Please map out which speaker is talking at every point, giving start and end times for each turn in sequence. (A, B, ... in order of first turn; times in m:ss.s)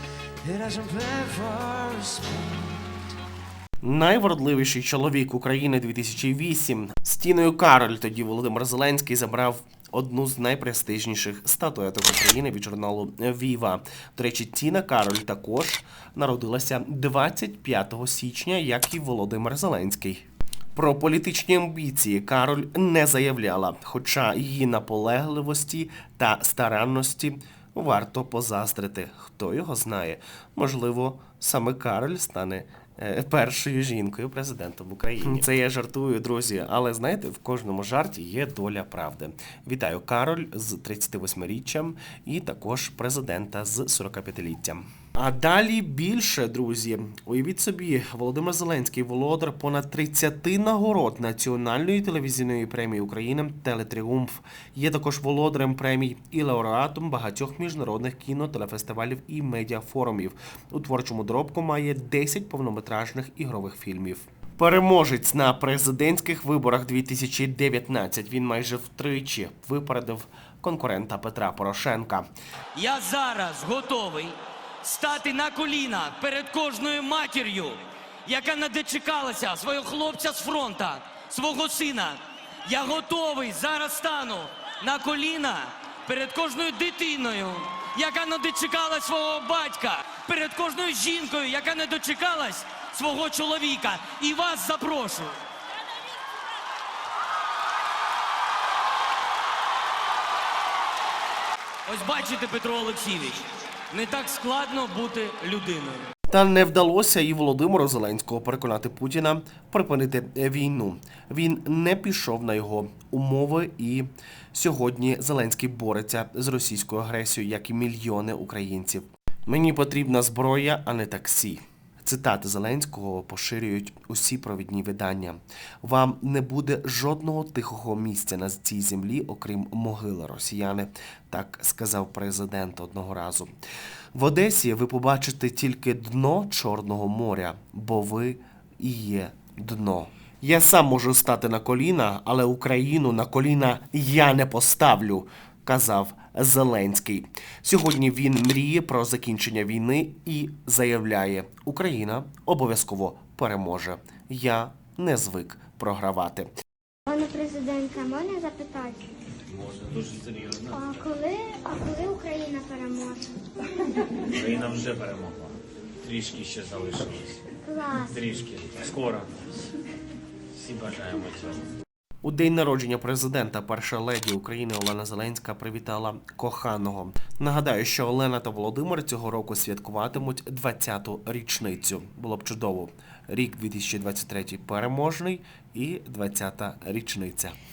0:00.4-0:02.8 A
0:03.8-1:12.3 B
1:12.8-1:14.3 C
1:13.8-1:14.3 D
1:14.8-1:35.3 C
1:22.7-1:23.6 D
1:25.2-1:25.5 D
1:26.1-1:26.8 D
1:28.1-1:28.9 D
1:41.9-1:43.4 C
1:43.9-1:46.1 C
1:46.3-2:13.5 B
2:14.1-2:36.5 B
2:37.1-2:39.1 E
2:39.5-2:40.8 D
2:40.7-2:43.4 E
2:44.3-2:45.5 D
2:46.0-2:47.4 D
2:47.6-2:48.2 E
2:48.1-2:49.4 D
2:50.6-2:51.6 D
2:52.2-3:07.6 B